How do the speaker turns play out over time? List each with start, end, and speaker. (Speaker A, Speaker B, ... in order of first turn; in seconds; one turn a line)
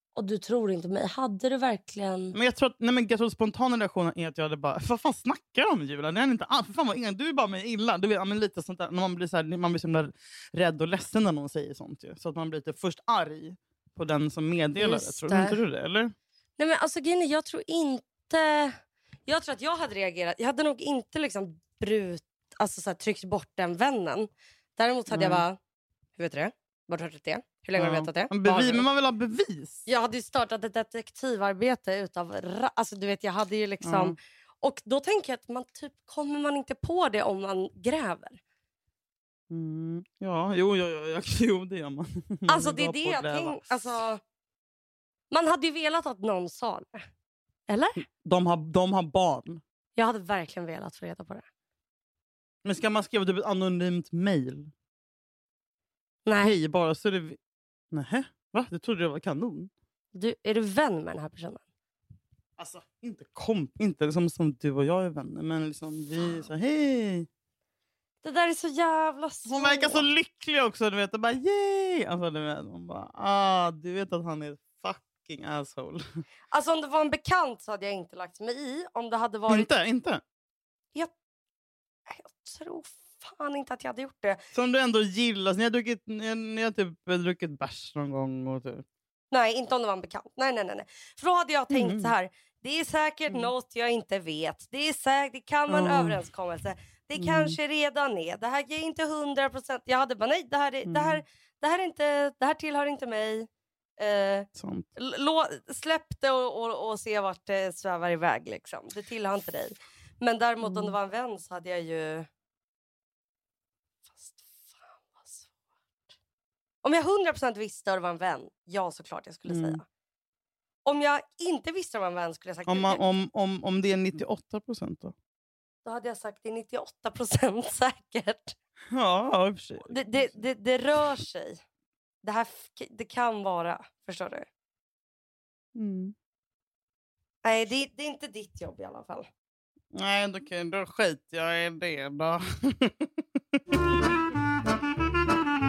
Speaker A: 0.1-2.4
Speaker B: 2.4-16.1
Speaker A: 14.8-15.6
Speaker A: 16.6-25.6
Speaker B: 25.1-25.4
Speaker A: 26.2-28.9
Speaker B: 27.8-29.9
Speaker A: 29.9-38.4
Speaker B: 33.8-34.1
Speaker B: 39.5-43.8
Speaker A: 42.5-44.2
Speaker A: 45.3-47.0
Speaker A: 47.7-48.0
Speaker B: 48.2-49.6
Speaker A: 50.0-51.5
Speaker B: 52.6-54.7
Speaker A: 56.2-56.6
Speaker B: 56.4-57.4
Speaker B: 57.9-59.7
Speaker A: 60.1-61.6
Speaker B: 62.6-67.3
Speaker A: 68.2-70.1
Speaker B: 69.5-76.0
Speaker A: 76.5-79.7
Speaker B: 79.5-80.2
Speaker A: 82.1-84.4
Speaker B: 84.5-88.8
Speaker A: 89.3-112.3
Speaker B: 91.7-92.1
Speaker B: 95.7-96.2
Speaker B: 97.2-97.6
Speaker B: 100.9-101.2
Speaker B: 104.6-104.9
Speaker B: 110.6-111.0
Speaker A: 114.1-115.5
Speaker A: 116.8-119.8
Speaker B: 119.5-119.8
Speaker A: 120.8-123.0
Speaker B: 122.7-125.1
Speaker A: 125.8-128.6
Speaker B: 128.9-130.4
Speaker A: 129.9-131.6
Speaker A: 132.2-134.5
Speaker B: 135.7-136.1
Speaker A: 137.4-139.3
Speaker B: 139.9-143.1